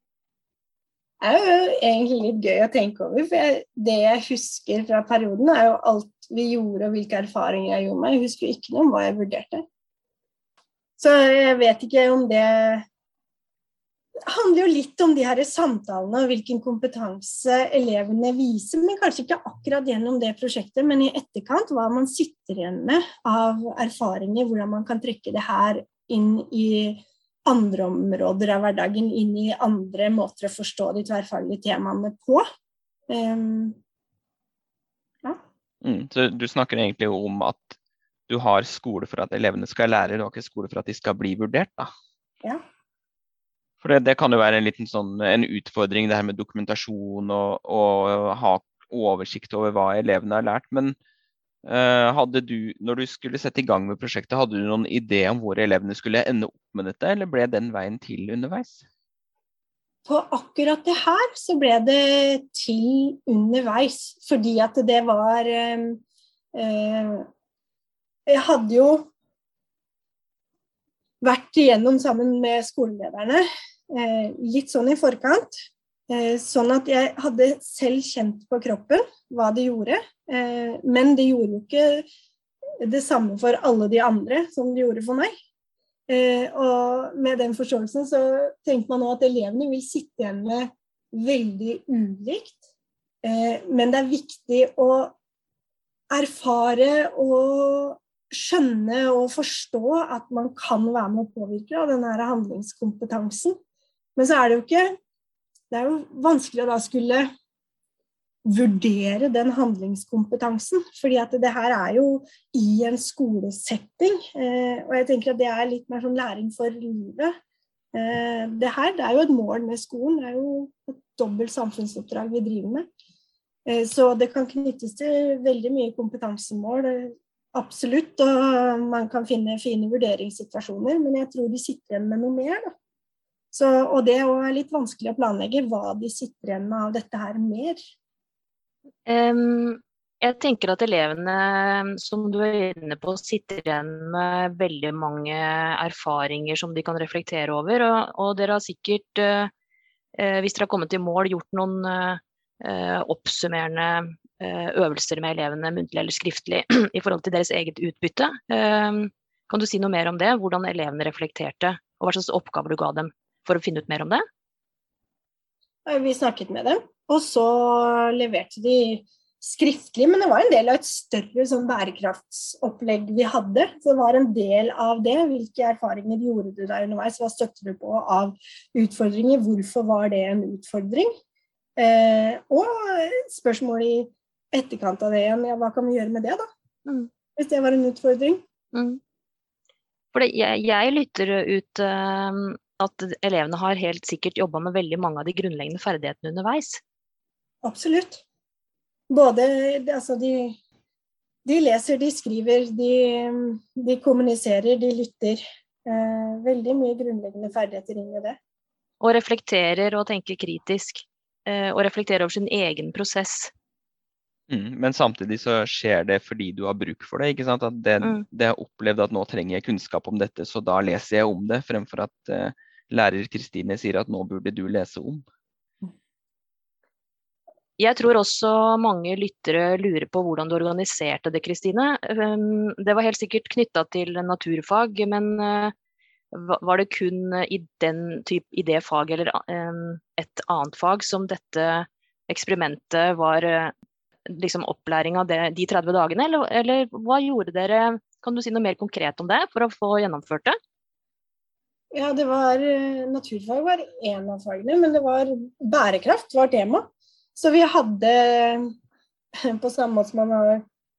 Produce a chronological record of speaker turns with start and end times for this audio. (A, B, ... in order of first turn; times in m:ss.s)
0:01.2-0:09.6 A
0:11.0-0:12.8 A
0:14.2-0:32.4 A
0:33.1-0:33.8 A
0:35.8-0:37.8 B
0:38.3-0:41.9 B
0:43.8-0:50.9 B
0:51.6-0:58.8 B
1:00.0-1:06.0 A
1:06.5-1:07.3 A
1:08.3-1:09.1 A
1:11.2-1:15.6 A
1:16.1-1:22.0 A
1:22.8-1:25.3 A
1:26.1-1:32.6 A
1:33.2-1:35.1 A
1:36.1-1:43.6 A
1:44.2-1:44.9 A
1:45.7-1:47.3 A
1:48.4-1:57.3 A
1:57.9-2:02.9 A
2:03.6-2:12.7 A
2:13.5-2:17.8 A
2:19.0-2:29.5 C
2:30.2-2:44.2 C
2:45.8-3:01.1 A
3:01.8-3:06.5 A
3:07.4-3:08.4 A
3:08.7-3:09.0 C
3:10.1-3:16.8 C
3:17.6-3:18.2 A
3:19.1-3:20.6 A
3:21.4-3:28.4 A
3:29.0-3:33.5 C
3:34.5-3:45.2 B
3:47.8-3:55.7 C
3:56.3-4:03.7 C
4:04.3-4:10.6 C
4:11.9-4:18.7 A
4:19.4-4:20.6 A